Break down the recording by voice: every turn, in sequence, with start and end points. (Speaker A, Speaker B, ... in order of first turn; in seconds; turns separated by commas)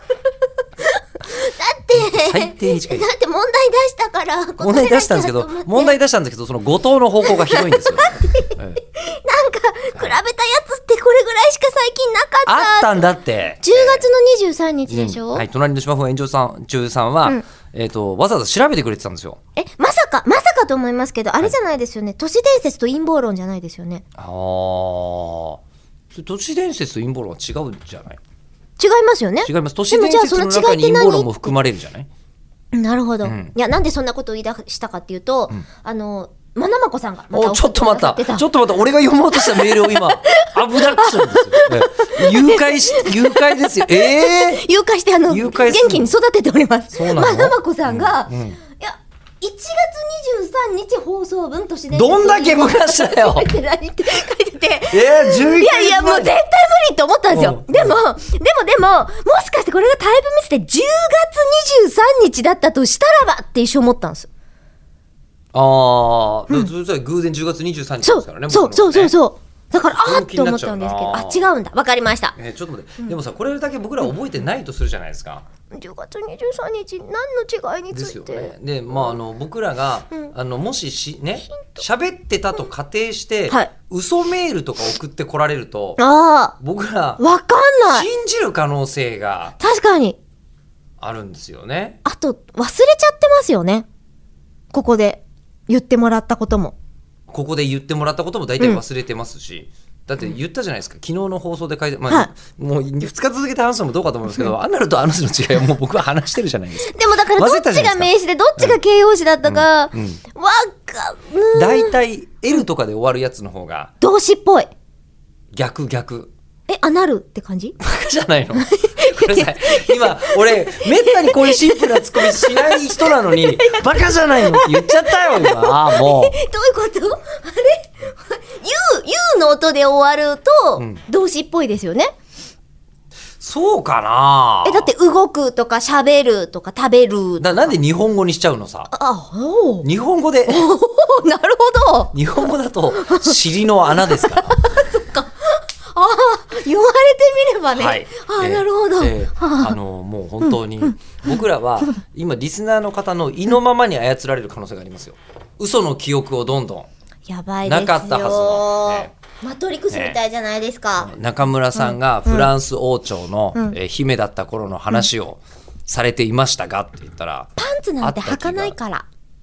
Speaker A: 0.8-5.9, Speaker B: 1.9-3.1, Speaker B: 4.6-8.8, Speaker A: 7.2-13.1, Speaker B: 12.5-14.1, Speaker A: 13.6-15.4, Speaker B: 14.9-19.4, Speaker A: 19.6-24.0, Speaker B: 24.2-25.6, Speaker B: 26.1-28.2, Speaker A: 28.8-31.5, Speaker B: 29.4-32.1, Speaker A: 32.7-38.5, Speaker B: 33.2-33.5, Speaker B: 37.3-44.6, Speaker A: 39.3-64.3, Speaker B: 45.3-46.1, Speaker B: 46.9-48.6, Speaker B: 51.9-53.5, Speaker B: 54.9-56.3, Speaker B: 57.3-58.0, Speaker B: 65.5-69.2, Speaker A: 68.0-72.4, Speaker B: 69.8-71.4, Speaker B: 72.4-75.5, Speaker A: 75.7-79.2, Speaker B: 77.9-86.0, Speaker A: 81.5-81.8, Speaker A: 86.0-86.6, Speaker B: 86.6-87.2, Speaker A: 87.2-88.1, Speaker B: 87.8-89.6, Speaker A: 89.6-90.2, Speaker B: 91.0-92.0, Speaker A: 92.0-93.9, Speaker A: 94.7-96.8, Speaker B: 97.3-108.8, Speaker A: 106.8-112.0, Speaker B: 109.4-110.2, Speaker B: 111.5-113.9, Speaker A: 114.0-114.7, Speaker B: 115.5-116.3, Speaker A: 116.7-117.8, Speaker B: 117.8-126.4, Speaker A: 118.6-132.1, Speaker B: 130.8-131.0, Speaker B: 133.4-134.9, Speaker A: 134.6-137.7, Speaker B: 137.4-138.9, Speaker A: 138.9-139.9, Speaker B: 139.8-140.7, Speaker A: 140.5-142.2, Speaker B: 142.1-144.6, Speaker A: 142.9-149.8, Speaker B: 147.8-156.9, Speaker A: 150.4-151.9, Speaker A: 157.3-161.1, Speaker B: 157.7-159.1, Speaker B: 159.9-160.2, Speaker B: 161.0-168.8, Speaker A: 161.8-162.5, Speaker A: 167.6-169.1